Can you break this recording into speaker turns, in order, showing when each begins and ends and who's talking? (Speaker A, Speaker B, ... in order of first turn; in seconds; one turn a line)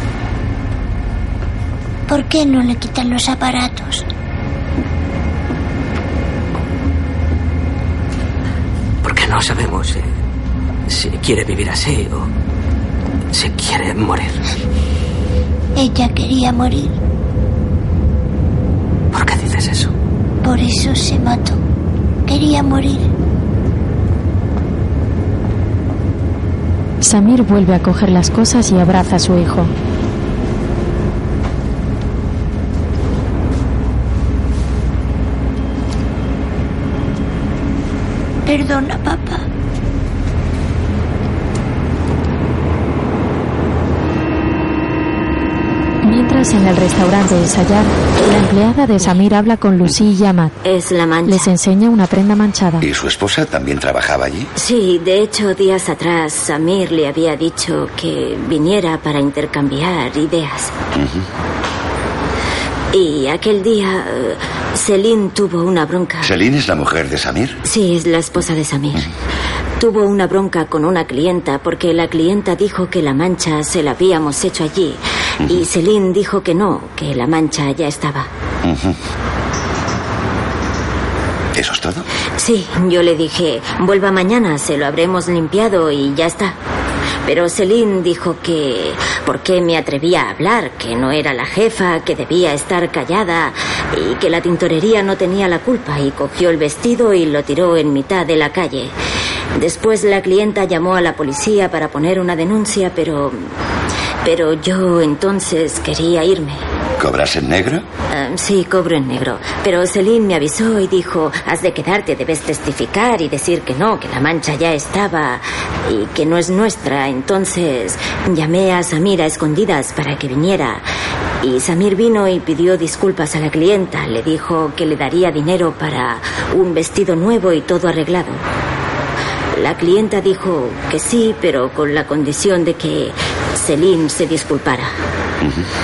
Speaker A: 2.1-4.1
Speaker B: 9.0-10.1
Speaker B: 10.9-12.3
Speaker B: 13.3-14.4
Speaker A: 15.8-16.9
Speaker B: 19.1-19.9
Speaker A: 20.4-21.6
Speaker A: 22.3-23.1
Speaker C: 27.0-29.7
Speaker A: 38.5-39.4
Speaker C: 46.0-50.5
Speaker D: 50.6-51.5
Speaker C: 51.2-52.9
Speaker E: 52.8-54.5
Speaker D: 54.5-60.7
Speaker E: 60.9-61.3
Speaker D: 62.9-66.3
Speaker E: 66.2-67.6
Speaker D: 67.6-69.1
Speaker D: 69.8-78.3
Speaker E: 78.6-79.0
Speaker E: 81.5-82.1
Speaker D: 82.4-86.6
Speaker D: 87.2-98.9
Speaker D: 99.6-103.5
Speaker D: 104.2-106.6
Speaker E: 107.0-107.8
Speaker D: 108.1-120.8
Speaker D: 121.4-128.4
Speaker D: 129.5-134.9
Speaker E: 135.4-135.7